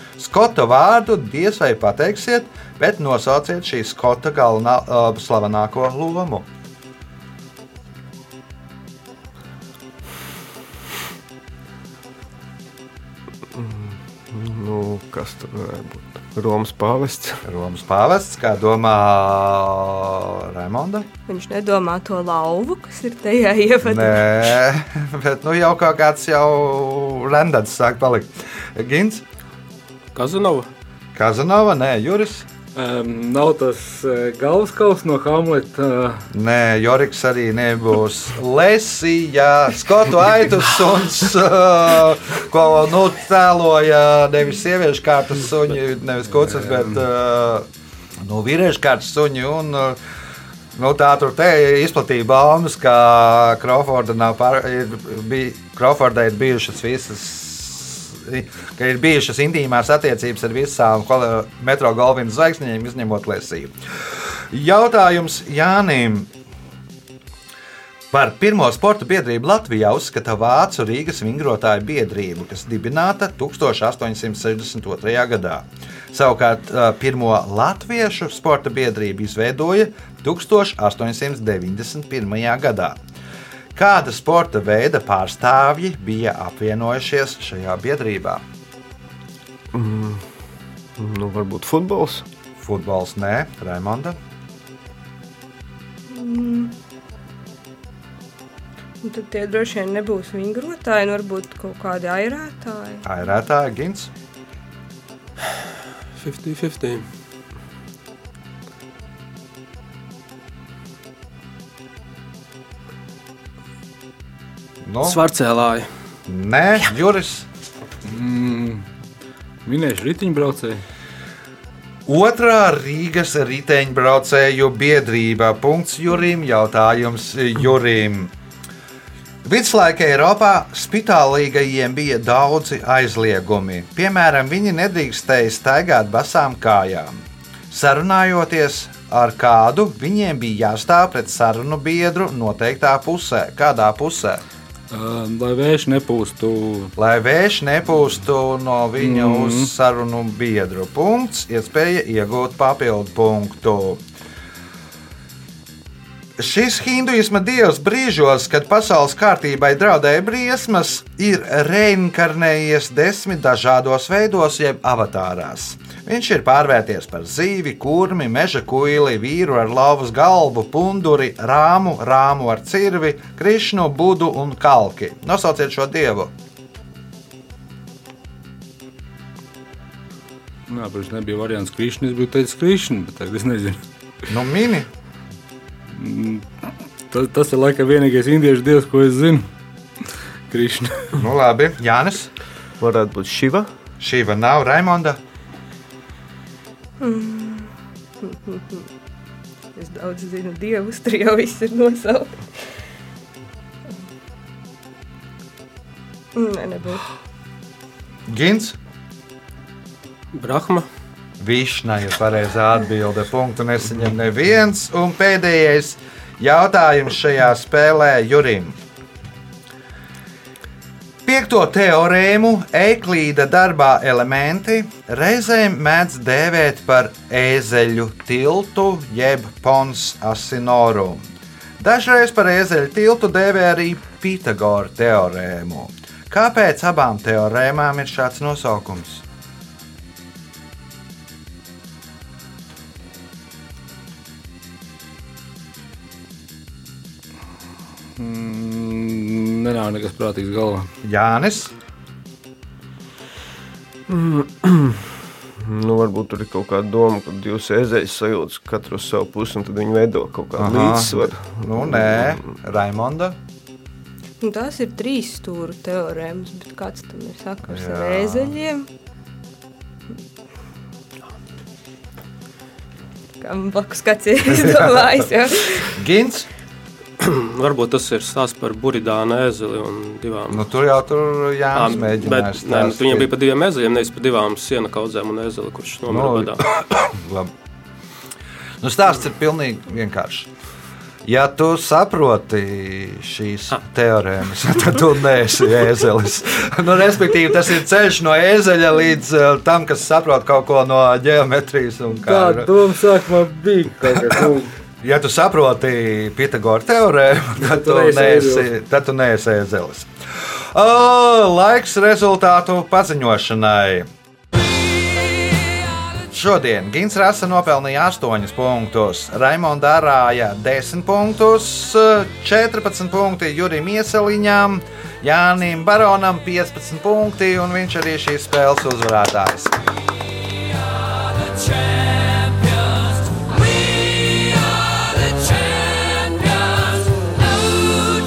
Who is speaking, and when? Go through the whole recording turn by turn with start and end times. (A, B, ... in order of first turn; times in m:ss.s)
0:00.2-0:06.5 A
0:13.5-0:17.5 B
0:17.4-0:21.1 A
0:21.3-0:24.6 C
0:23.8-0:29.2 A
0:30.1-0:30.7 D
0:31.2-0:32.5 A
0:32.8-0:36.3 E
0:36.3-0:47.7 A
0:46.4-0:47.0 E
0:48.2-0:50.0 A
0:50.8-1:03.7 A
1:04.5-1:06.3 A
1:08.1-1:23.0 A
1:23.8-1:28.4 A
1:29.7-1:30.3 B
1:31.0-1:32.2 B
1:32.6-1:34.2 A
1:36.1-1:36.8 C
1:39.0-1:43.0 C
1:43.0-1:44.1 A
1:46.2-1:47.1 D
1:54.8-1:55.2 A
1:55.0-1:55.9 D
1:56.3-1:57.5 A
1:58.0-1:58.8 E
1:59.6-2:00.8 E
2:02.1-2:08.3 A
2:09.4-2:24.4 A
2:24.9-2:26.9 E
2:27.0-2:34.0 A
2:29.0-2:29.7 E
2:36.4-2:56.3 A
3:00.7-3:03.8 E
3:04.3-3:04.9 A
3:05.9-3:06.5 E
3:07.1-3:09.5 E
3:10.5-3:11.2 E
3:11.2-3:12.3 A
3:12.8-3:13.7 B
3:14.0-3:15.2 A
3:17.0-3:17.7 C
3:18.2-3:18.8 C
3:19.8-3:22.6 C
3:26.4-3:27.1 C
3:28.3-3:28.8 A
3:30.3-3:30.9 D
3:31.4-3:38.8 A
3:41.3-3:51.3 A
3:51.8-3:59.2 A
4:08.2-4:10.9 E
4:11.0-4:11.7 A
4:14.1-4:22.4 B
4:20.6-4:23.4 A
4:24.4-4:28.9 C
4:27.7-4:28.5 A
4:33.4-4:35.9 C
4:35.9-4:36.5 A
4:37.2-4:40.6 D
4:40.5-4:43.3 A
4:41.7-4:46.6 D
4:46.1-4:47.5 A
4:48.8-4:50.5 A
4:51.2-5:02.7 A
5:02.2-5:04.7 E
5:05.0-5:10.1 A
5:07.6-5:08.7 E
5:10.7-5:14.1 A
5:16.3-5:29.7 A
5:36.0-5:36.5 E